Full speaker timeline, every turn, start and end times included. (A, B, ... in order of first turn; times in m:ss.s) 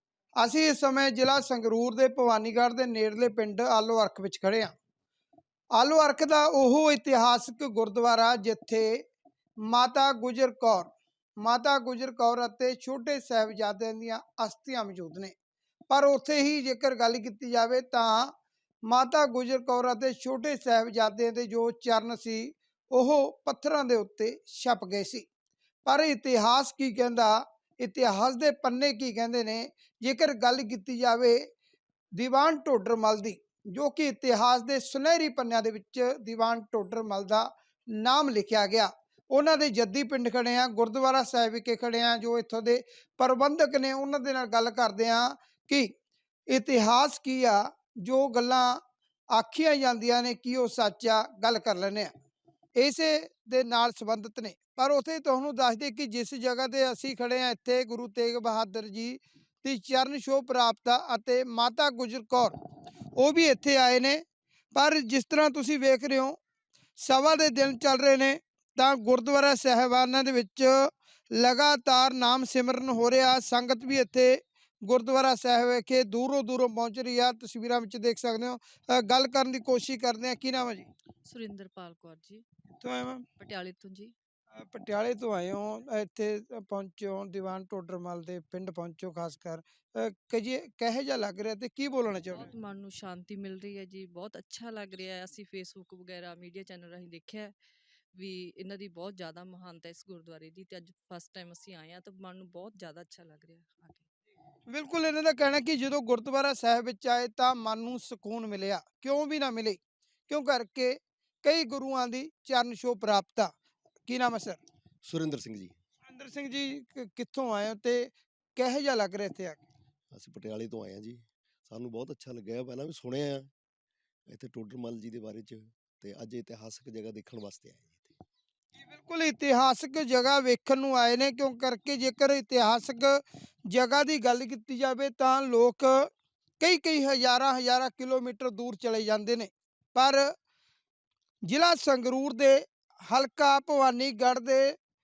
0:00.4-0:04.7 A
0:05.8-0:09.0 A
0:09.7-0:15.3 A
0:15.9-0:18.3 A
0:18.9-0:25.3 A
0:25.8-0:31.4 A
0:32.2-0:37.5 A
0:38.0-0:45.9 A
0:46.5-0:48.8 A
0:49.3-0:52.1 A
0:52.8-1:02.5 A
1:03.2-1:04.2 A
1:04.7-1:06.4 A
1:07.0-1:20.9 A
1:21.3-1:22.4 B
1:22.8-1:23.2 A
1:23.4-1:24.1 B
1:24.6-1:32.5 A
1:32.4-1:37.5 B
1:38.2-1:44.0 B
1:44.7-1:53.6 A
1:54.1-1:54.6 A
1:55.0-1:55.8 C
1:56.1-1:59.6 A
2:00.1-2:03.5 C
2:04.3-2:08.2 C
2:08.8-2:16.1 A
2:16.6-2:20.2 A
2:21.5-2:24.8 A